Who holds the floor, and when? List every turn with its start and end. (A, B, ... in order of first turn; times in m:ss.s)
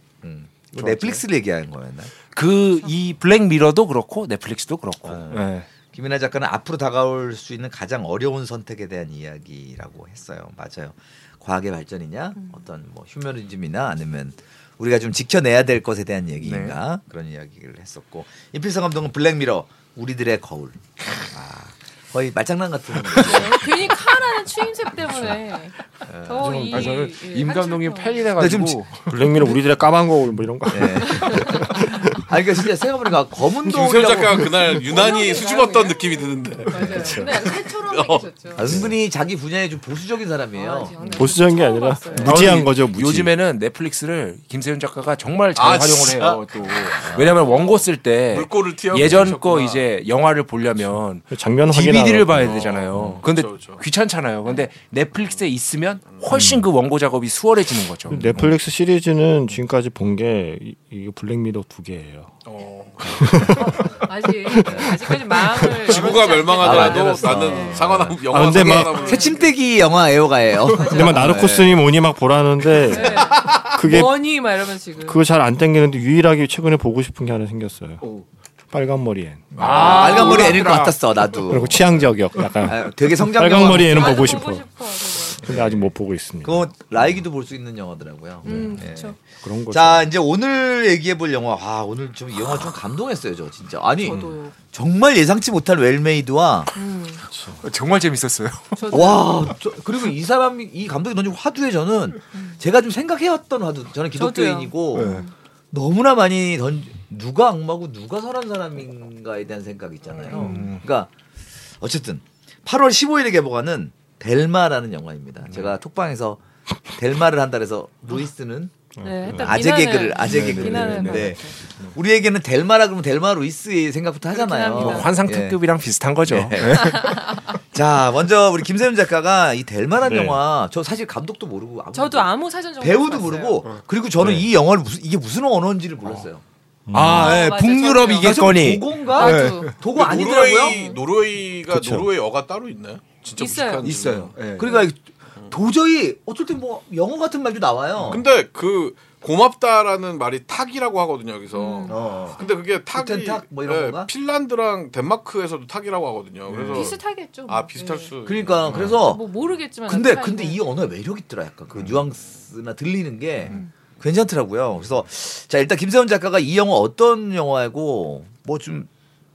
0:00.2-0:02.1 A
0:00.8-0:01.2 B
0:02.3-0:05.7 B
0:05.0-0:23.9 A
0:16.4-0:16.8 B
0:23.2-0:28.3 C
0:26.0-0:26.9 A
0:26.4-0:29.2 B
0:28.4-0:28.8 A
0:29.1-0:32.4 D
0:30.7-0:34.5 A
0:31.1-0:31.8 C
0:33.6-0:38.3 E
0:34.8-0:38.9 C
0:36.9-0:37.3 D
0:38.6-0:41.0 A
0:40.5-0:42.6 C
0:41.2-0:43.3 D
0:42.1-0:42.4 A
0:42.2-0:58.5 B
0:45.6-0:47.8 E
0:47.0-0:47.4 A
0:48.3-0:49.9 E
0:51.3-0:53.2 D
0:52.4-0:53.8 E
0:56.3-0:56.6 D
0:58.1-1:02.4 D
1:02.4-1:03.5 E
1:03.0-1:05.7 D
1:03.5-1:08.1 C
1:05.8-1:09.5 E
1:05.9-1:11.8 A
1:08.2-1:09.1 D
1:08.7-1:09.4 C
1:10.7-1:11.4 C
1:10.7-1:14.2 D
1:12.9-1:15.2 C
1:13.0-1:13.8 E
1:15.0-1:18.0 D
1:18.7-1:20.3 D
1:19.6-1:21.9 A
1:19.6-1:21.4 B
1:19.7-1:20.7 C
1:21.4-1:24.7 D
1:22.6-1:24.4 A
1:23.8-1:25.5 C
1:25.4-1:26.7 D
1:25.4-1:25.9 A
1:26.4-1:36.7 A
1:28.4-1:29.2 C
1:28.5-1:30.1 D
1:34.0-1:34.5 C
1:36.8-1:37.2 C
1:37.4-1:37.6 D
1:37.6-1:39.0 B
1:38.7-1:39.4 C
1:38.9-1:51.1 A
1:42.3-1:42.6 C
1:44.2-1:45.4 C
1:44.9-1:45.3 B
1:50.1-1:50.7 C
1:50.3-1:50.8 B
1:51.8-1:58.7 A
1:59.0-1:59.5 D
1:59.0-2:01.6 C
1:59.3-2:05.6 A
2:00.2-2:01.4 B
2:04.3-2:05.2 C
2:04.7-2:07.4 B
2:06.3-2:16.4 A
2:06.7-2:07.6 C
2:10.0-2:10.4 D
2:11.9-2:13.7 C
2:14.2-2:14.5 B
2:16.9-2:17.4 D
2:16.9-2:19.7 B
2:17.0-2:18.5 C
2:18.2-2:20.8 A
2:19.1-2:19.7 C
2:19.7-2:24.4 E
2:20.5-2:21.0 C
2:21.7-2:22.1 D
2:23.3-2:23.9 C
2:23.8-2:24.9 B
2:24.6-2:28.2 A
2:28.0-2:39.0 E
2:31.5-2:32.6 C
2:31.9-2:34.1 A
2:36.7-2:38.2 C
2:38.3-2:39.2 A
2:38.8-2:40.6 C
2:39.9-2:48.9 A
2:41.7-2:42.0 E